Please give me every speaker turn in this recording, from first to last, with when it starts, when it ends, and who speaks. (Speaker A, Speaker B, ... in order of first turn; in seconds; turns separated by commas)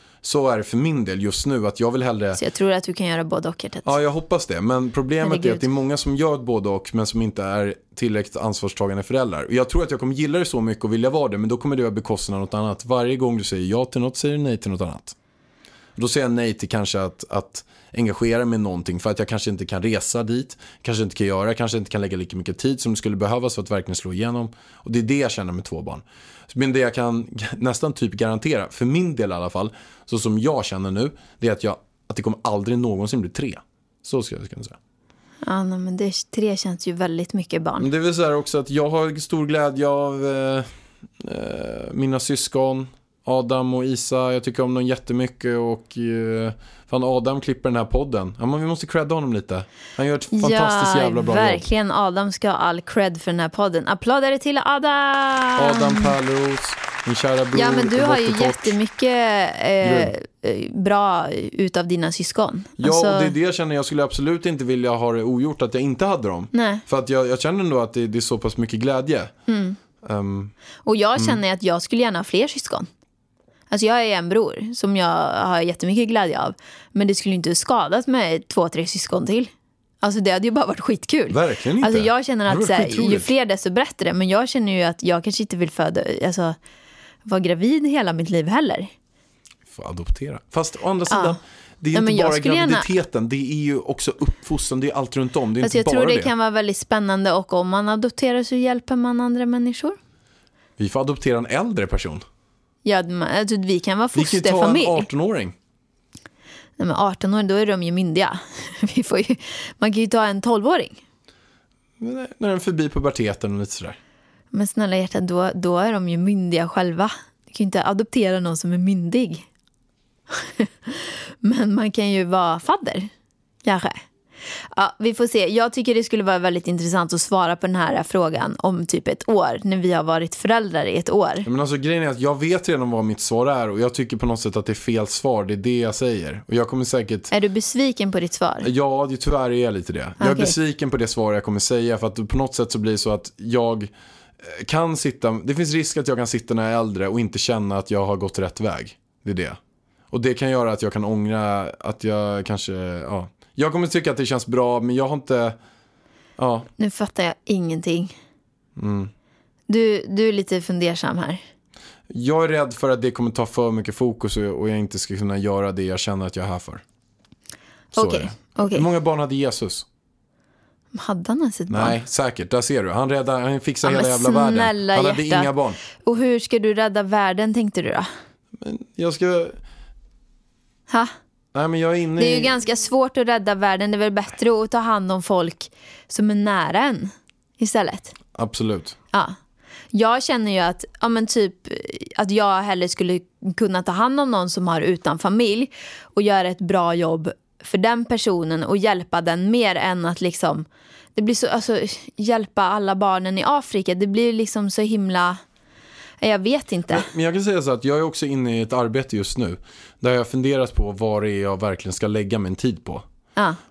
Speaker A: 0.2-2.4, Speaker B: 2.4-3.9, Speaker A: 3.8-15.2, Speaker B: 5.2-5.6, Speaker A: 16.0-34.8, Speaker B: 35.4-37.9, Speaker A: 37.8-40.7, Speaker A: 41.2-51.6, Speaker B: 50.3-56.1, Speaker A: 55.6-58.8, Speaker B: 57.5-63.3, Speaker A: 59.8-60.1, Speaker A: 62.8-69.3, Speaker B: 66.5-66.8, Speaker B: 69.5-69.8, Speaker A: 70.0-70.5, Speaker B: 70.8-72.9, Speaker B: 73.7-86.6, Speaker A: 81.3-83.3, Speaker B: 87.3-88.9, Speaker A: 89.7-96.3, Speaker B: 91.1-91.4, Speaker B: 91.9-92.9, Speaker B: 95.6-100.0, Speaker A: 100.8-102.2, Speaker B: 102.8-105.1, Speaker A: 104.2-105.5, Speaker B: 106.8-111.0, Speaker A: 112.0-114.0, Speaker B: 114.5-119.5, Speaker B: 120.3-123.1, Speaker B: 123.6-124.0, Speaker B: 124.7-131.5, Speaker A: 131.4-137.3, Speaker B: 137.3-138.7, Speaker A: 138.6-143.9, Speaker B: 140.2-140.5, Speaker A: 144.4-149.6, Speaker A: 150.1-155.6, Speaker A: 156.4-156.7, Speaker B: 156.8-158.1, Speaker A: 158.8-159.1, Speaker B: 159.7-161.4, Speaker A: 162.1-166.8, Speaker B: 167.9-168.8, Speaker A: 167.9-169.9, Speaker B: 170.9-171.9, Speaker A: 171.7-175.8, Speaker B: 173.8-178.1, Speaker A: 178.6-179.6, Speaker A: 181.5-182.5, Speaker B: 182.2-188.1, Speaker A: 188.3-189.0, Speaker B: 189.9-200.7, Speaker B: 201.2-205.4, Speaker B: 206.2-207.1, Speaker A: 206.9-213.1